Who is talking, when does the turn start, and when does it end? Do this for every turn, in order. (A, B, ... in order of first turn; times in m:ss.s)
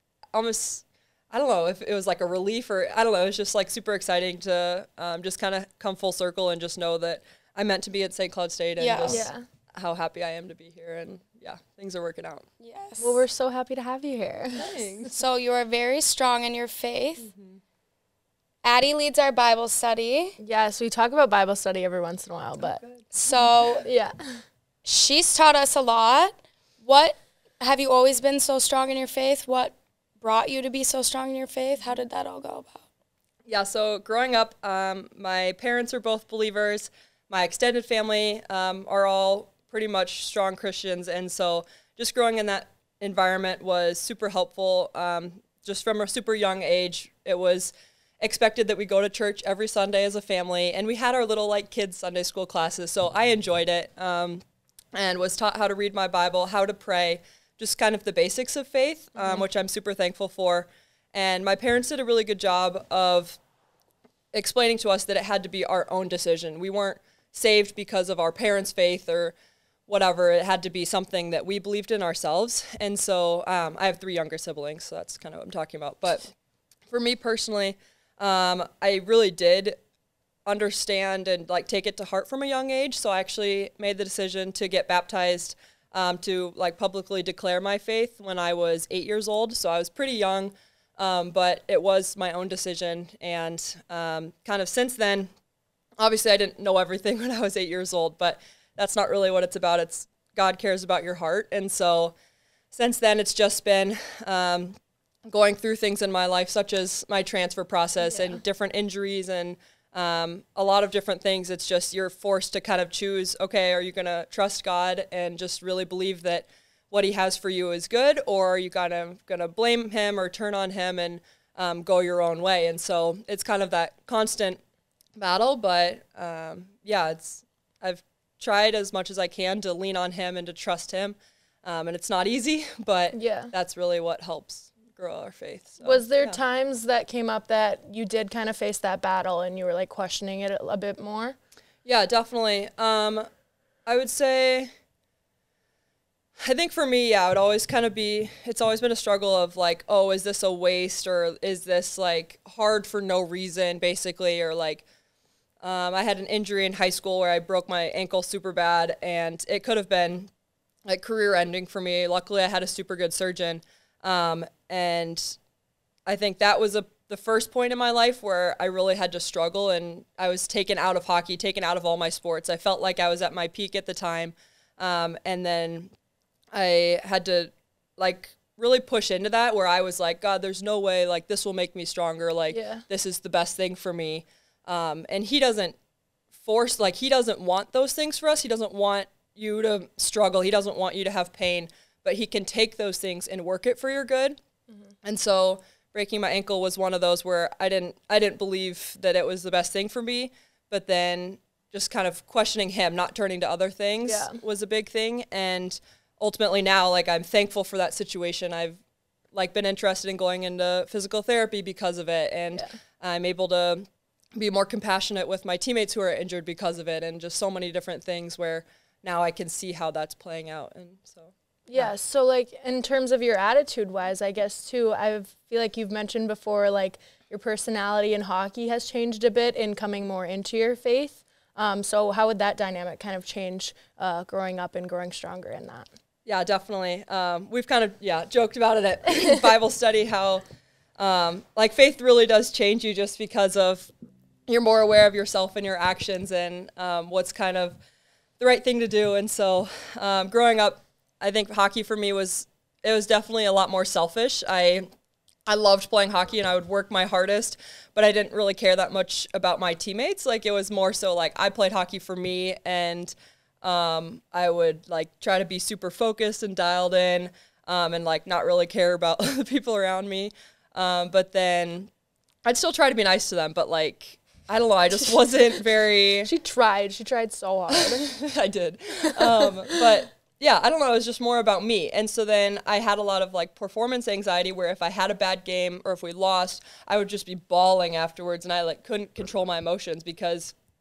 0:00.3-0:12.5 A
0:08.8-0:09.3 B
0:09.0-0:09.4 C
0:12.6-0:13.2 B
0:13.0-0:14.7 C
0:14.6-0:15.1 A
0:15.1-0:17.3 B
0:17.2-0:17.6 A
0:18.6-0:20.4 B
0:20.4-0:22.8 C
0:22.6-0:23.0 A
0:23.1-0:23.9 B
0:23.7-0:24.4 C
0:24.8-0:32.8 B
0:33.5-0:54.4 A
0:55.0-1:03.4 A
0:59.2-0:59.4 C
1:04.3-1:09.3 A
1:09.9-1:16.3 A
1:16.9-1:19.8 A
1:20.5-1:35.3 A
1:36.0-1:42.1 A
1:42.7-2:04.6 A
1:48.1-1:48.4 C
2:05.2-2:16.4 A
2:13.1-2:13.5 C
2:15.8-2:21.4 C
2:21.8-2:23.3 A
2:23.9-2:24.7 A
2:26.4-2:34.8 A
2:35.6-2:40.3 A
2:40.8-2:45.4 A
2:46.1-2:55.9 A
2:56.5-3:05.8 A
3:02.5-3:02.8 C
3:06.4-3:14.4 A
3:15.0-3:28.8 A
3:24.1-3:24.4 C
3:29.3-3:41.9 A
3:41.7-3:55.9 C
3:56.2-4:00.4 A
4:01.0-4:03.9 A
4:04.5-4:07.8 A
4:08.4-4:14.9 A
4:15.5-4:31.9 A
4:32.4-4:36.3 A
4:36.2-4:38.2 C
4:37.7-4:50.5 A
4:39.1-4:39.8 C